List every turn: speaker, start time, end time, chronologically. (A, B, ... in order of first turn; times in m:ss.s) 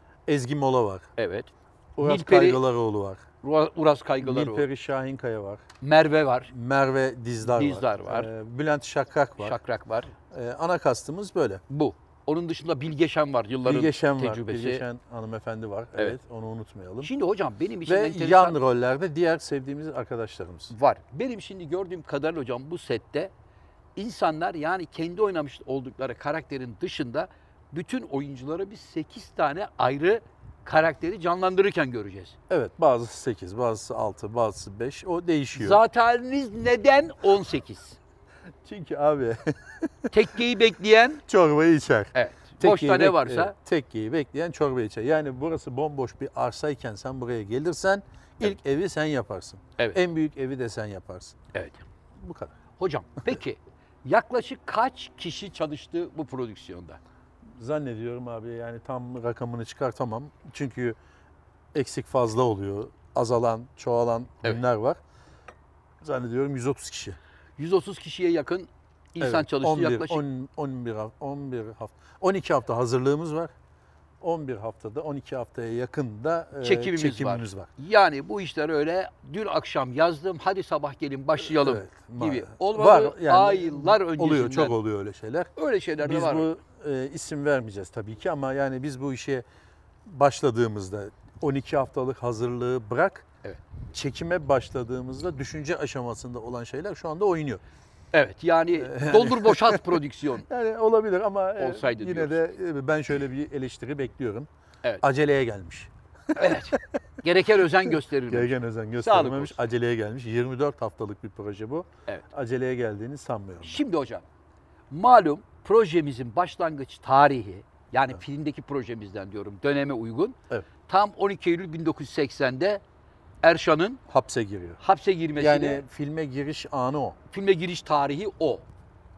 0:00.3-0:01.1 A
0:01.2-0:02.6 B
0:02.0-0:03.2 A
0:03.4-0:04.6 B
0:04.2-0:05.6 A
0:05.8-0:06.5 B
0:06.5-0:09.6 A
0:07.4-0:08.3 B
0:09.4-0:10.1 B
0:10.3-0:11.6 A
0:11.7-0:14.8 B
0:13.6-0:17.1 A
0:17.0-0:18.6 B
0:17.9-0:20.7 A
0:20.7-0:23.3 B
0:24.0-0:32.4 B
0:32.5-0:35.8 A
0:35.6-0:38.0 B
0:38.6-0:40.1 A
0:40.1-0:41.2 B
0:41.3-0:51.4 A
0:42.2-0:43.6 B
0:51.5-0:51.8 B
0:52.2-0:52.5 A
0:52.8-0:57.0 B
0:57.6-1:01.0 A
1:01.7-1:05.0 A
1:06.0-1:07.2 A
1:07.6-1:10.2 B
1:09.2-1:13.5 A
1:14.2-1:17.7 A
1:16.6-1:24.8 B
1:21.4-1:25.5 A
1:25.6-1:26.5 B
1:26.0-1:29.4 A
1:30.1-1:33.3 A
1:33.9-1:37.6 A
1:38.1-1:40.5 B
1:38.8-1:44.5 A
1:41.6-1:42.4 B
1:45.0-1:46.8 A
1:46.3-1:49.6 B
1:47.9-1:53.8 A
1:53.6-1:54.2 B
1:54.9-2:02.8 B
2:03.4-2:04.0 B
2:04.1-2:04.8 A
2:04.8-2:05.8 B
2:05.4-2:07.2 A
2:07.3-2:08.6 B